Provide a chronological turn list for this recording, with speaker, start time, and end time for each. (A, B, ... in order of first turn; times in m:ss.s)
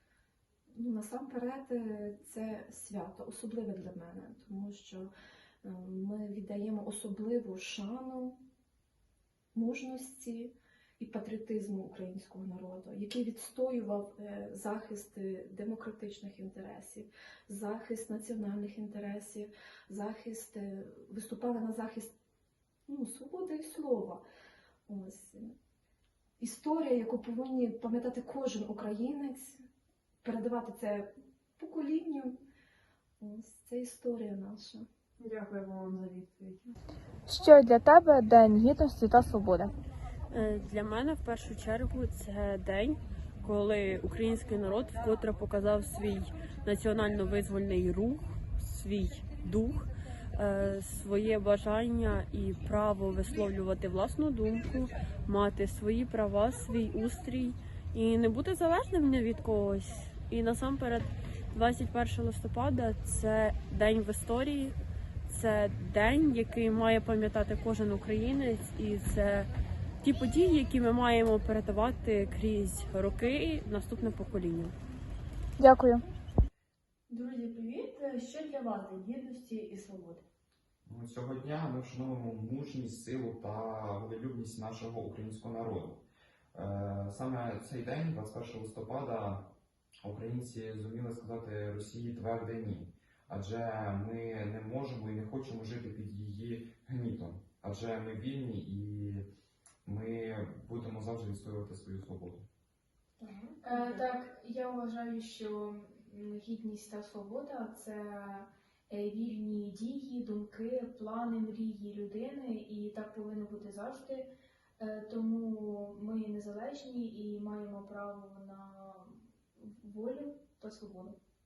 0:00.7-0:05.1 A
0:05.6-0:08.4 A
0:09.5-0:22.1 A
0:22.9-0:24.2 A
0:24.9-0:25.6 A
0:26.4-0:29.6 A
0:30.2-0:32.4 A
0:33.2-0:34.9 A
0:35.2-0:36.7 B
0:37.3-0:39.7 C
0:40.3-1:04.8 B
1:05.3-1:09.5 B
1:10.0-1:14.8 B
1:15.6-1:16.0 C
1:17.3-1:20.2 D
1:20.9-1:29.5 E
1:30.0-1:39.3 E
1:39.8-1:42.5 E
1:43.6-2:01.2 F